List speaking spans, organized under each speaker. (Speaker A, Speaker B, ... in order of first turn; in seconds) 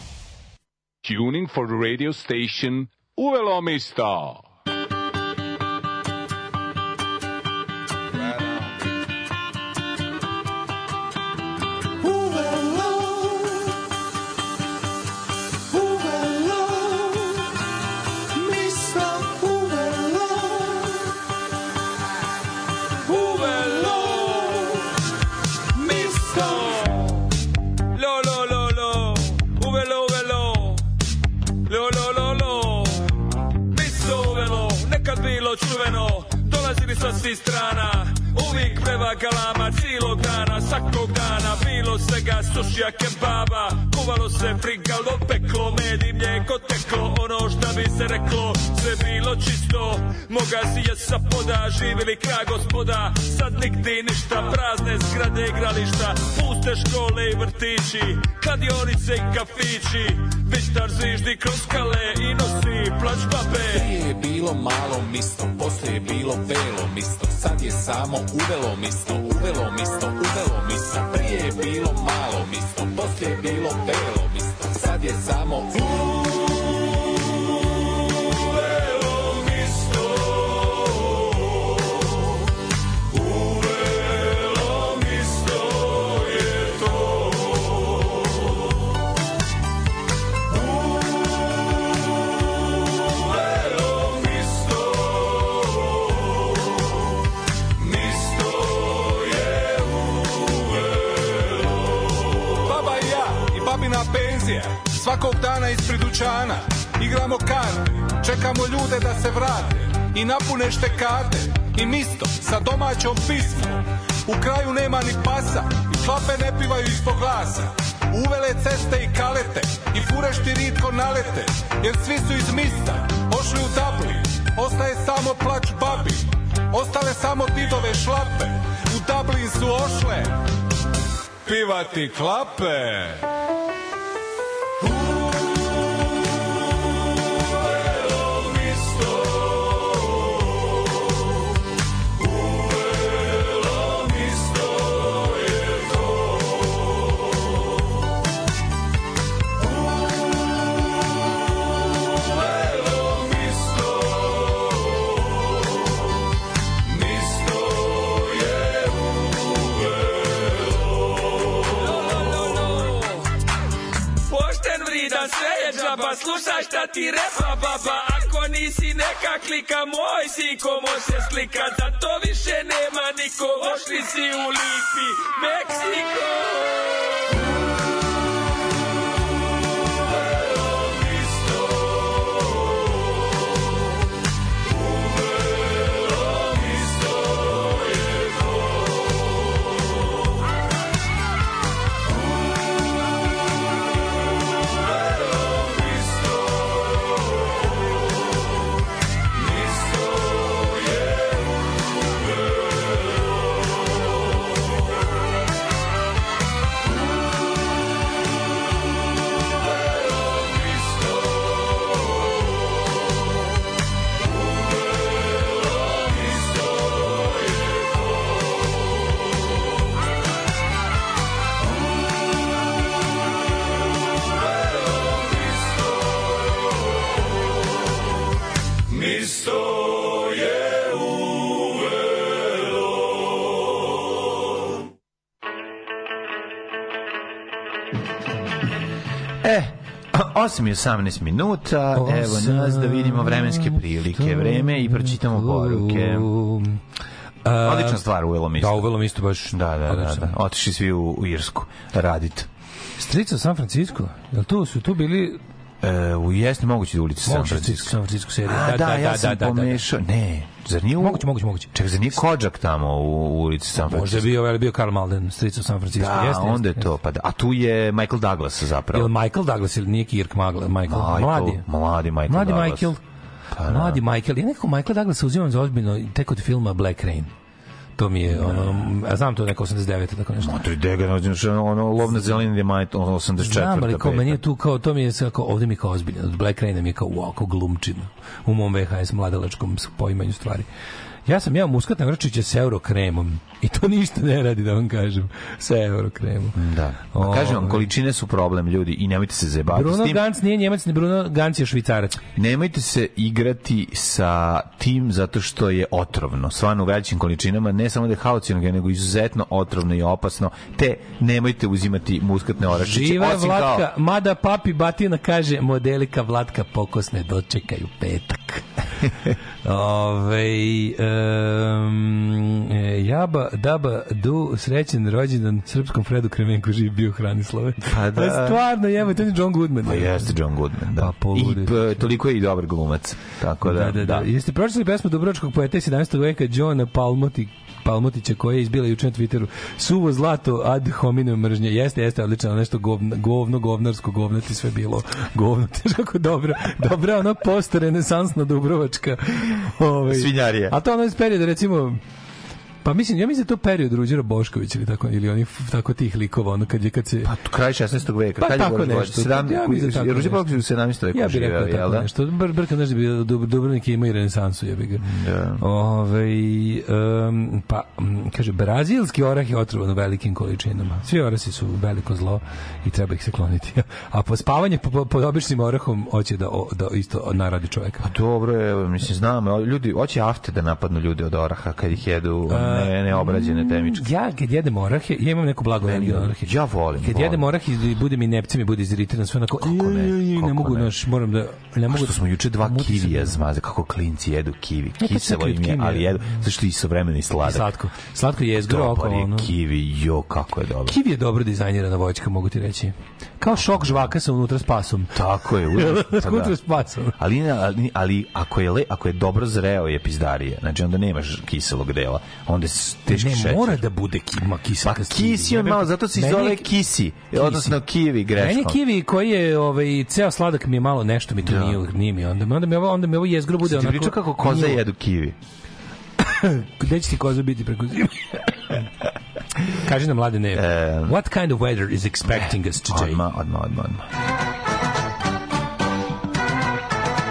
Speaker A: 1.0-4.4, 64.2-70.1
Speaker B: 23.1-24.8, 25.8-27.0, 27.9-30.8, 31.6-33.0, 33.7-63.9, 161.7-163.2, 164.3-176.8
Speaker C: 93.9-94.9, 97.8-99.8, 102.6-130.3, 131.4-133.2, 229.1-229.4
Speaker D: 239.4-246.3, 247.6-248.9, 249.5-252.5, 255.8-264.3, 265.9-269.1, 270.9-272.9, 273.5-274.0, 278.3-278.9, 280.4-284.4, 296.5-300.2, 302.4-313.9, 327.9-328.6, 329.8-334.3, 350.1-350.7, 357.2-362.1, 365.0-365.6, 378.0-384.1, 385.8-387.4, 389.6-390.9, 391.9-397.7, 398.5-400.9, 403.6-404.1, 405.1-406.6, 407.2-413.8, 414.8-418.8, 421.4-421.8, 423.6-425.4, 430.5-431.1, 432.3-434.0
Speaker E: 241.9-246.8, 247.4-248.0, 248.5-250.4, 253.0-255.4, 257.2-259.8, 261.0-261.7, 263.7-266.9, 268.9-271.6, 272.3-273.0, 273.6-277.3, 278.0-280.6, 283.4-290.6, 291.2-296.6, 297.1-297.9, 299.7-302.2, 312.7-318.6, 319.6-330.3, 330.9-332.0, 333.6-352.0, 352.8-357.3, 358.4-360.6, 361.1-365.1, 365.6-378.0, 382.5-393.4, 395.0-396.4, 397.4-399.5, 400.9-407.1, 413.1-416.7, 417.3-417.8, 418.4-424.8, 426.2-428.4, 429.7-433.2